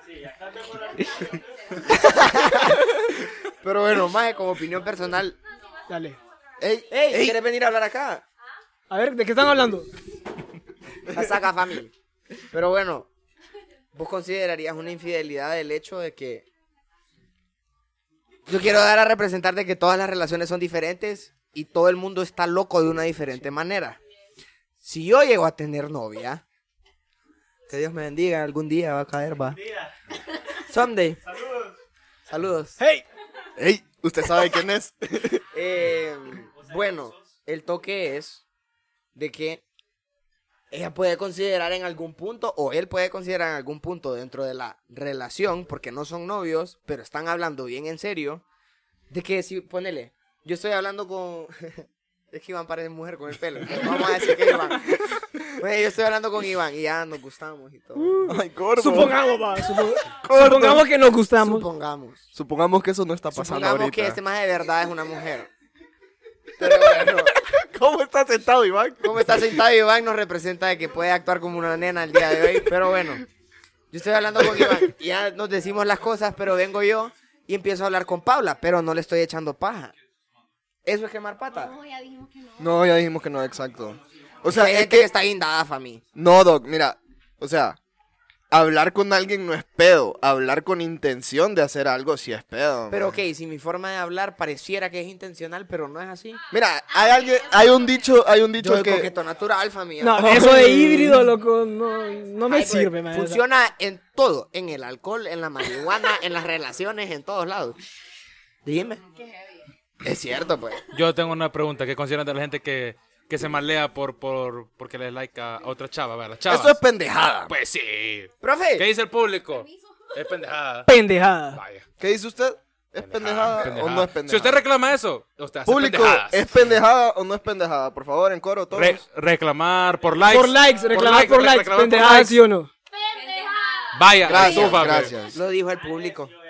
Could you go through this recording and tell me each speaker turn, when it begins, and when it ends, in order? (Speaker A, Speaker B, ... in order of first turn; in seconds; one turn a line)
Speaker A: 1.9-2.8
Speaker A: 3.6-5.4
Speaker B: 5.9-6.2
Speaker C: 6.6-7.4
Speaker A: 6.9-8.2
Speaker B: 8.9-9.9
Speaker A: 11.1-11.9
Speaker A: 12.5-13.1
Speaker A: 13.9-16.5
Speaker A: 18.5-24.0
Speaker A: 24.8-26.4
Speaker A: 27.7-29.6
Speaker A: 30.6-31.2
Speaker A: 32.3-32.8
Speaker B: 32.8-33.0
Speaker C: 33.6-35.4
Speaker A: 35.5-38.4
Speaker A: 39.1-39.6
Speaker A: 40.7-48.4
Speaker A: 49.1-54.9
Speaker A: 55.6-58.2
Speaker B: 58.0-61.6
Speaker C: 58.2-59.2
Speaker C: 60.1-60.9
Speaker A: 61.4-62.2
Speaker C: 62.3-64.2
Speaker A: 63.3-65.5
Speaker A: 66.6-67.3
Speaker C: 66.6-69.6
Speaker A: 69.0-73.2
Speaker A: 73.9-79.9
Speaker C: 74.5-74.8
Speaker A: 80.8-81.7
Speaker D: 81.5-82.8
Speaker C: 82.6-85.1
Speaker A: 84.5-86.0
Speaker C: 86.1-87.8
Speaker C: 88.5-93.2
Speaker A: 92.9-96.4
Speaker C: 96.5-99.1
Speaker D: 96.9-98.1
Speaker A: 98.6-101.1
Speaker B: 100.0-103.4
Speaker C: 100.3-101.2
Speaker A: 102.5-107.8
Speaker A: 108.6-109.0
Speaker D: 109.1-109.6
Speaker A: 110.0-110.8
Speaker E: 110.9-116.8
Speaker C: 116.5-117.5
Speaker E: 117.5-120.9
Speaker A: 118.4-118.8
Speaker D: 119.5-120.0
Speaker B: 120.8-121.6
Speaker E: 121.5-121.8
Speaker C: 122.0-124.6
Speaker E: 123.0-126.7
Speaker C: 125.6-129.0
Speaker E: 128.7-132.4
Speaker B: 130.2-132.7
Speaker D: 133.1-133.5
Speaker E: 133.9-135.1
Speaker C: 134.2-135.4
Speaker A: 134.3-136.3